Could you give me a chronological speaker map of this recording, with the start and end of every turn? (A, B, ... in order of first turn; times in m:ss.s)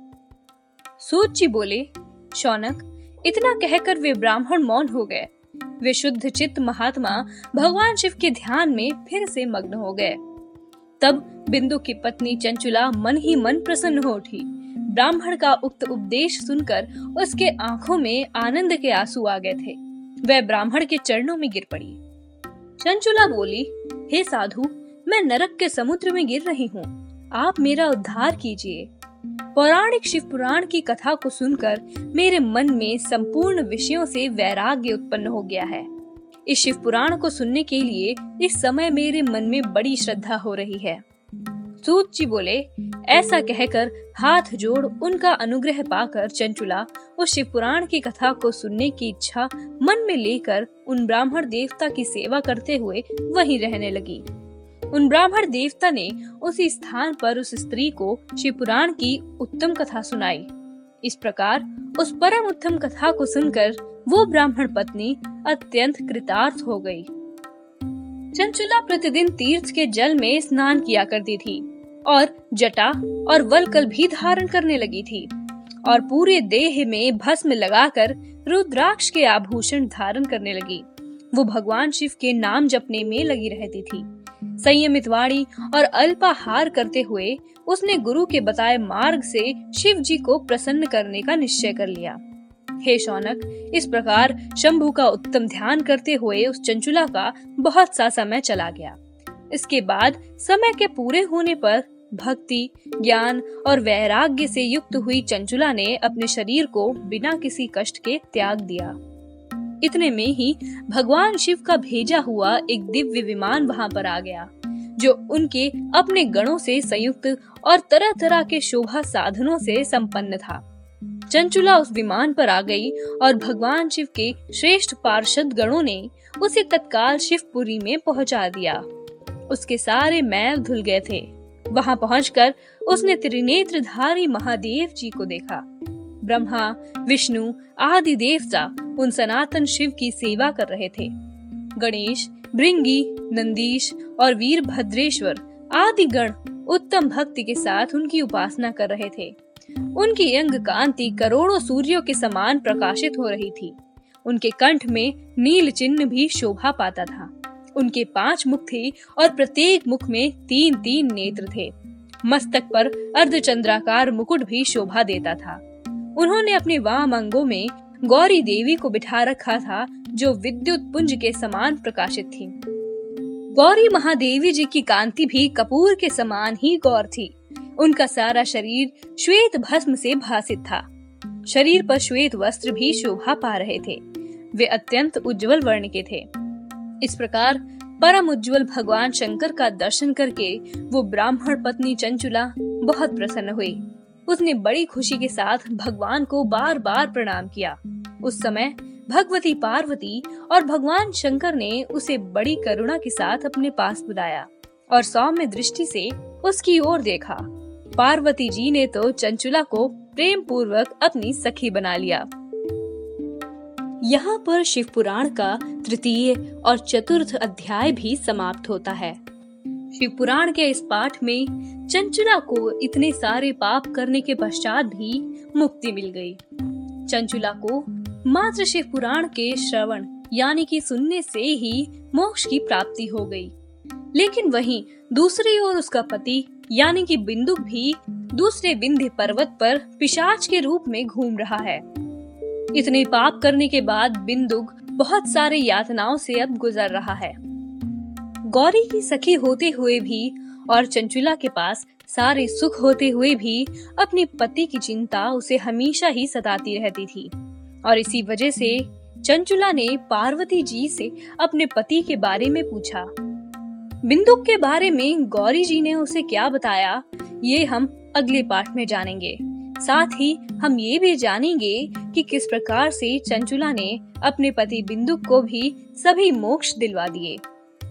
0:01.0-0:10.2 A
0:11.0-0:22.0 A
0:22.8-0:28.9 A
0:29.6-0:35.9 A
0:36.5-0:41.0 A
0:41.8-0:54.2 A
0:54.9-1:00.5 A
1:01.0-1:07.1 A
1:08.3-1:15.3 A
1:15.8-1:24.1 A
1:24.6-1:32.2 A
1:32.8-1:39.0 A
1:39.5-1:49.0 A
1:49.8-2:00.6 A
2:01.3-2:08.8 A
2:09.5-2:15.6 A
2:16.2-2:21.1 A
2:21.8-2:29.4 A
2:30.0-2:45.6 A
2:46.2-2:52.6 A
2:53.5-3:00.9 A
3:01.5-3:04.0 A
3:04.5-3:06.3 A
3:07.0-3:32.3 A
3:34.0-3:39.2 A
3:39.9-3:46.4 A
3:47.1-3:53.5 A
3:54.1-4:01.8 A
4:02.7-4:07.4 A
4:08.4-4:17.3 A
4:17.8-4:23.1 A
4:24.0-4:37.4 A